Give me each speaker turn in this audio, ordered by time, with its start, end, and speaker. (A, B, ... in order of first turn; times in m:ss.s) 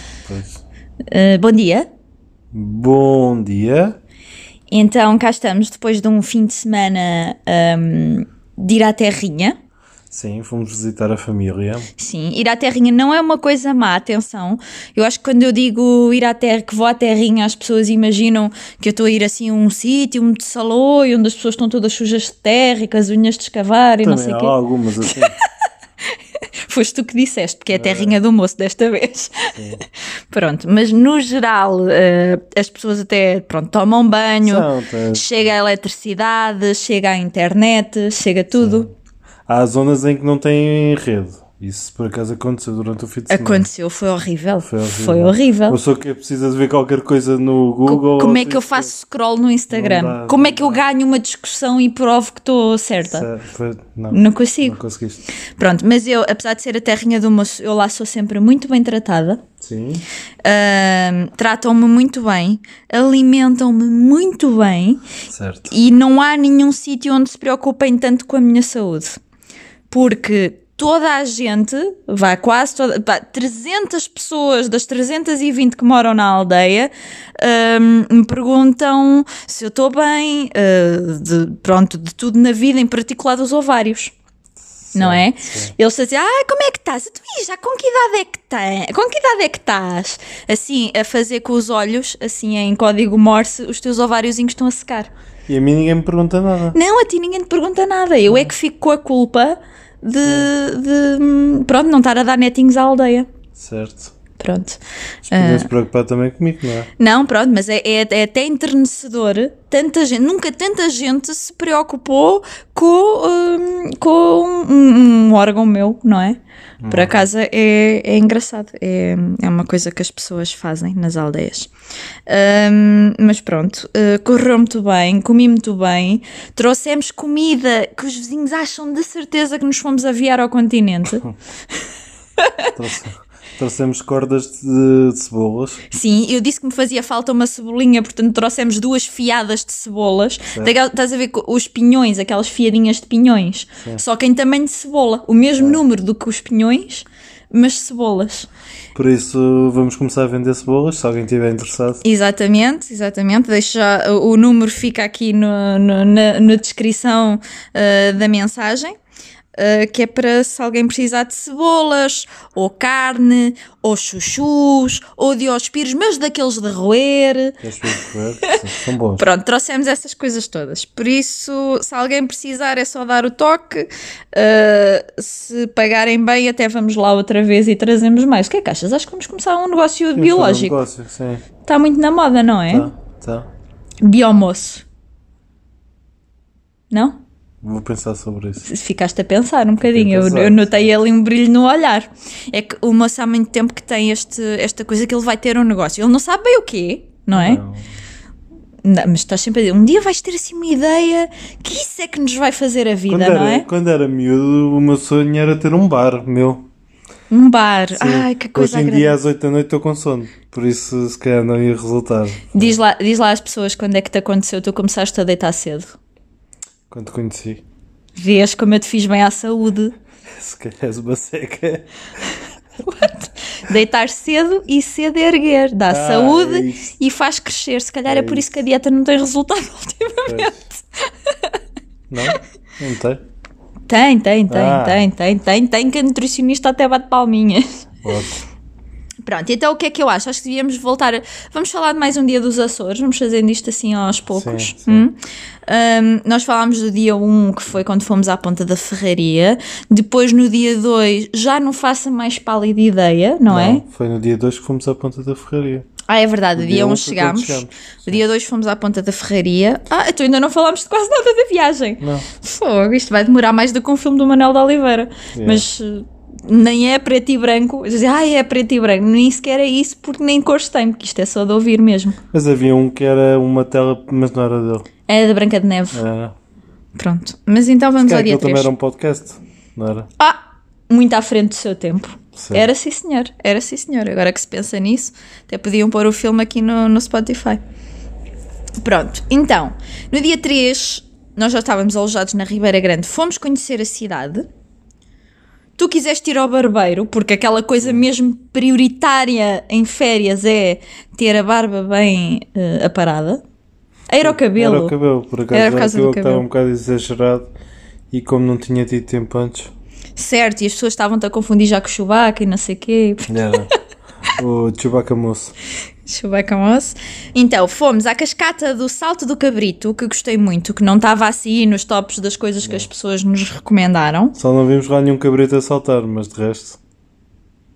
0:00.3-0:00.6 A
0:01.1-0:01.9 B
0:02.5-0:04.0 A
0:04.7-0:09.6 B
0:10.1-0:11.9 A
0:12.0-0:24.6 B
0:24.0-0:25.4 A
0:25.1-0:25.5 B
0:26.7-0:29.5 B
0:27.7-0:28.2 A
0:29.5-0:29.8 A
0:30.3-0:38.9 B
0:34.4-0:35.3 A
0:38.5-0:38.9 A
0:39.5-0:43.7 A
0:43.3-0:45.8 B
0:44.6-0:48.9 A
0:47.8-0:53.3 B
0:49.7-0:50.8 A
0:53.0-0:55.2 A
0:54.1-0:54.8 B
0:55.6-0:59.4 B
0:59.6-1:00.1 A
1:00.4-1:05.0 B
1:05.3-1:05.8 A
1:05.7-1:09.2 B
1:09.9-1:24.1 B
1:24.8-1:25.7 A
1:25.0-1:35.1 B
1:35.5-1:36.8 A
1:36.7-1:43.3 B
1:40.2-1:40.5 A
1:43.6-1:44.1 A
1:44.4-1:44.8 B
1:45.3-1:46.9 A
1:45.3-1:45.7 B
1:47.0-2:01.7 B
1:56.8-1:57.3 A
2:02.3-2:11.2 B
2:12.4-2:12.7 B
2:12.7-2:15.8 A
2:15.9-2:28.5 B
2:29.0-2:32.0 A
2:32.0-2:38.9 B
2:39.6-2:47.6 B
2:47.6-2:49.3 A
2:49.2-3:00.8 B
3:00.2-3:01.4 A
3:01.6-3:02.9 B
3:02.7-3:03.5 A
3:04.0-3:04.8 B
3:06.9-3:07.2 B
3:07.6-3:08.7 A
3:08.6-3:17.6 B
3:09.8-3:11.0 A
3:17.3-3:18.0 A
3:18.8-3:23.7 B
3:23.1-3:26.7 A
3:27.3-3:29.2 B
3:28.0-3:32.8 A
3:32.5-3:36.0 B
3:36.9-3:37.6 A
3:38.2-3:39.9 B
3:40.3-3:41.9 A
3:42.8-3:51.6 B
3:45.9-3:46.9 A
3:48.1-3:48.6 A
3:50.2-3:50.6 A
3:52.1-3:53.2 A
3:53.9-3:57.8 B
3:54.5-3:55.1 A
3:58.0-3:58.4 A
3:59.2-4:05.2 B
4:04.3-4:05.1 A
4:05.7-4:13.8 B
4:13.5-4:15.9 A
4:16.1-4:32.2 B
4:16.6-4:18.2 A
4:22.0-4:22.3 A
4:25.4-4:25.7 A
4:32.3-4:34.9 A
4:35.1-4:36.0 B
4:35.9-4:36.3 A
4:37.0-4:38.7 B
4:38.0-4:40.1 A
4:40.9-4:47.6 B
4:42.4-4:42.7 A
4:48.8-4:54.5 B
4:55.8-5:03.4 B
5:04.1-5:05.0 B
5:04.2-5:07.5 A
5:05.5-5:06.4 B
5:08.1-5:09.7 A
5:10.2-5:13.7 B
5:13.3-5:13.7 A
5:14.3-5:15.5 A
5:16.1-5:24.4 B
5:22.6-5:22.9 A
5:24.4-5:26.8 A